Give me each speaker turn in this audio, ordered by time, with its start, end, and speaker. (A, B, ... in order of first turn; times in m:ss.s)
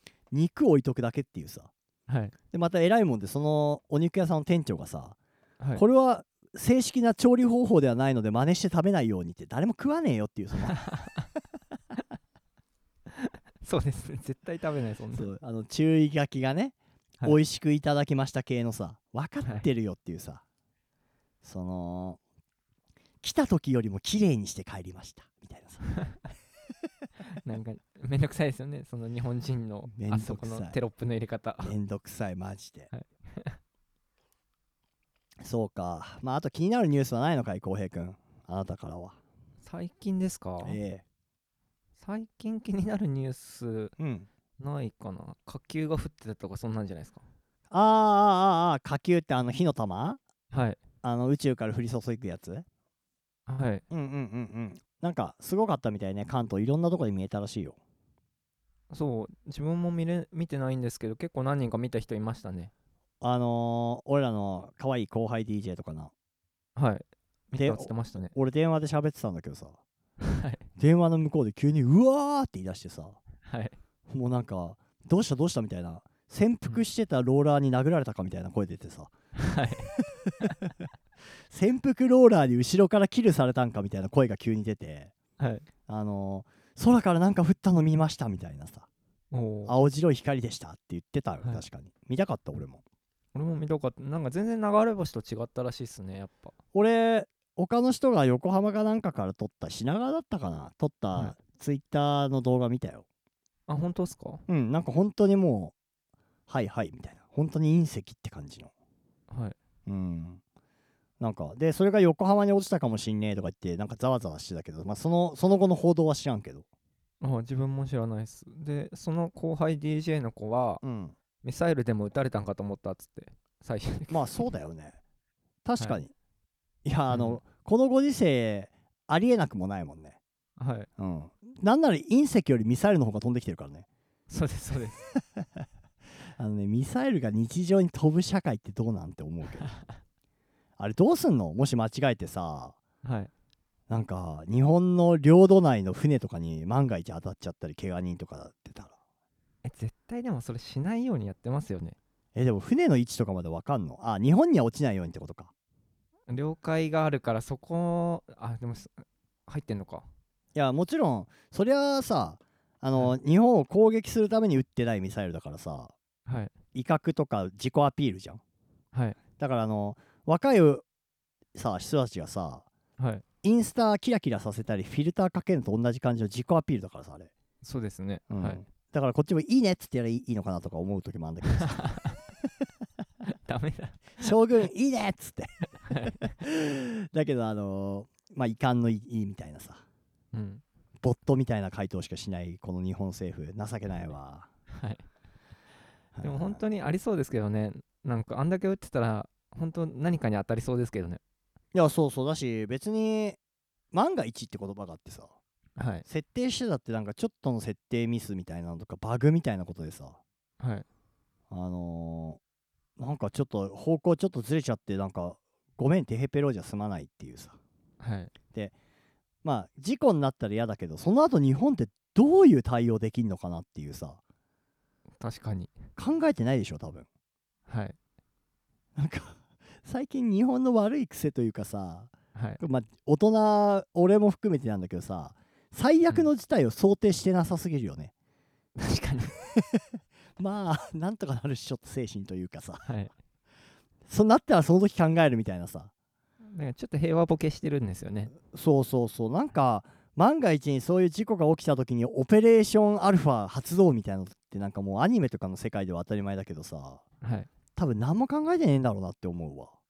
0:00.3-0:01.7 A
0:02.1-0:02.3 B
0:02.5-0:05.2 A
0:05.7-0:10.8 A
0:10.7-0:11.2 B
0:13.2-0:15.3 B
0:15.1-0:20.4 A
0:21.4-0:22.2 A
0:23.2-0:25.9 A
0:27.4-0:31.7 B
0:29.9-0:30.8 A
0:31.6-0:32.9 A
0:32.9-0:33.5 B
0:35.4-0:39.2 A
0:39.6-0:40.8 B
0:40.6-0:41.0 A
0:42.0-0:43.9 B
0:44.0-0:44.3 A
0:44.6-0:47.2 B
0:47.7-0:50.2 A
0:50.5-0:50.8 B
0:51.0-0:52.6 A
0:53.5-0:53.8 B
0:53.9-0:57.8 A
0:58.9-1:02.7 B
1:03.2-1:06.1 A
1:06.8-1:08.3 B
1:07.5-1:09.8 A
1:10.2-1:10.6 B
1:10.8-1:13.2 A
1:13.4-1:13.8 B
1:14.1-1:19.1 A
1:19.4-1:19.9 B
1:20.0-1:20.3 A
1:21.5-1:25.1 A
1:25.4-1:25.6 B
1:25.9-1:28.8 A
1:29.3-1:29.7 B
1:29.6-1:32.8 A
1:33.3-1:36.5 B
1:36.7-1:43.0 A
1:43.7-1:44.4 B
1:44.5-1:45.7 A
1:46.5-1:48.7 A
1:49.3-1:49.6 B
1:49.8-1:50.4 A
1:51.2-1:56.6 A
1:57.2-2:00.8 B
2:00.8-2:01.1 A
2:01.4-2:04.4 B
2:04.1-2:05.0 A
2:05.6-2:06.1 A
2:06.8-2:10.2 A
2:07.1-2:07.4 B
2:10.6-2:10.9 B
2:11.0-2:13.8 A
2:14.3-2:15.1 B
2:16.4-2:19.7 A
2:20.8-2:22.8 A
2:23.0-2:23.3 B
2:23.9-2:28.9 A
2:29.6-2:32.0 B
2:32.3-2:35.5 A
2:36.3-2:40.0 B
2:40.5-2:45.9 A
2:46.3-2:46.5 B
2:46.7-2:48.4 A
2:48.9-2:49.2 B
2:49.4-2:50.8 A
2:51.5-2:52.6 A
2:53.0-2:53.2 B
2:53.4-2:57.3 A
2:57.6-2:58.6 B
2:58.3-3:01.9 A
3:01.7-3:02.2 B
3:03.3-3:04.3 B
3:04.2-3:05.6 A
3:05.8-3:06.3 B
3:06.4-3:09.8 A
3:10.3-3:10.6 B
3:11.0-3:14.5 A
3:14.7-3:15.0 B
3:16.1-3:16.6 A
3:16.2-3:21.2 B
3:21.7-3:23.4 A
3:23.9-3:25.3 A
3:25.8-3:26.0 B
3:26.0-3:30.2 A
3:30.6-3:30.8 B
3:31.5-3:32.4 A
3:33.0-3:37.6 A
3:38.0-3:38.3 B
3:39.4-3:44.2 A
3:45.2-3:45.8 B
3:46.0-3:47.1 A
3:47.7-3:48.0 B
3:49.0-3:58.1 A
3:52.3-3:52.6 B
3:58.8-3:59.3 B
4:00.4-4:02.8 A
4:02.8-4:03.1 B
4:04.1-4:05.9 A
4:06.5-4:08.3 B
4:08.5-4:17.0 A
4:17.2-4:17.5 B
4:17.8-4:19.7 A